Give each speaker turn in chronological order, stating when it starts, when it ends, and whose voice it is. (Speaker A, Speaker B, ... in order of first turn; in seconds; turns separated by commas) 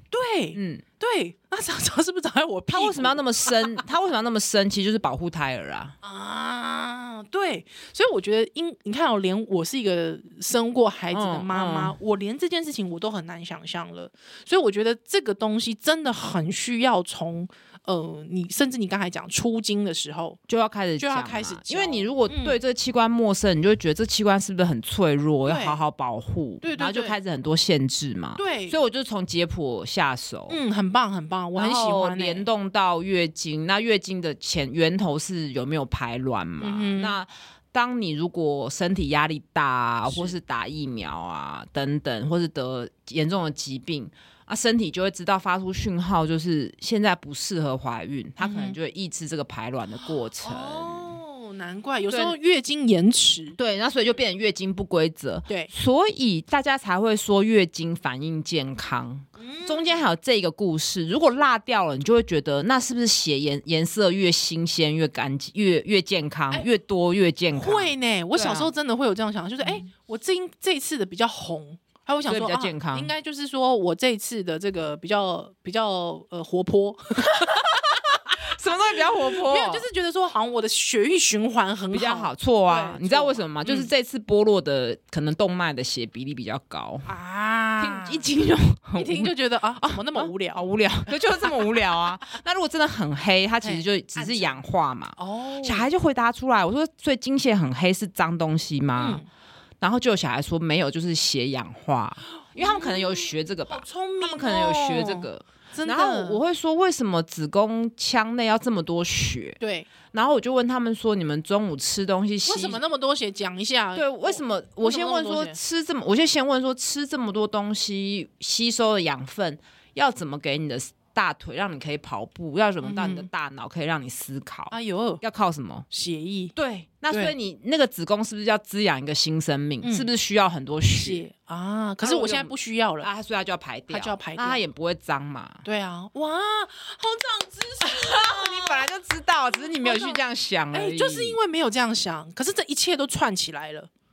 Speaker A: 0.1-3.8, Speaker B: 0.5-0.8, Speaker B: 2.7-5.9, Speaker A: 6.0-20.4, Speaker B: 11.1-11.9, Speaker B: 20.5-30.6, Speaker A: 21.0-22.6, Speaker A: 25.4-25.8, Speaker A: 26.6-27.2, Speaker A: 28.4-28.8, Speaker A: 30.5-32.5, Speaker B: 31.6-51.2, Speaker A: 36.6-37.1, Speaker A: 40.1-40.3, Speaker A: 48.4-48.8, Speaker A: 50.4-53.6, Speaker B: 52.1-52.3, Speaker B: 53.5-68.7, Speaker A: 59.4-60.0, Speaker A: 67.5-78.3, Speaker B: 72.2-73.1, Speaker B: 77.3-77.8, Speaker B: 78.3-79.8, Speaker A: 79.3-83.9, Speaker B: 81.9-87.1, Speaker A: 87.0-88.3, Speaker B: 87.8-99.2, Speaker A: 89.0-92.0, Speaker A: 93.6-94.6, Speaker A: 95.2-95.9, Speaker A: 99.0-99.3, Speaker B: 99.8-109.6, Speaker A: 102.5-106.4, Speaker A: 109.6-109.9, Speaker B: 110.1-112.8, Speaker A: 112.4-115.6, Speaker B: 113.9-125.9, Speaker A: 122.8-123.3, Speaker A: 124.7-125.2, Speaker A: 125.9-126.5, Speaker B: 126.5-131.2, Speaker A: 127.1-127.3, Speaker A: 129.8-130.1, Speaker A: 130.9-133.1, Speaker B: 132.0-135.6, Speaker A: 133.9-134.6, Speaker A: 135.6-138.9, Speaker B: 137.9-141.4, Speaker A: 139.5-143.9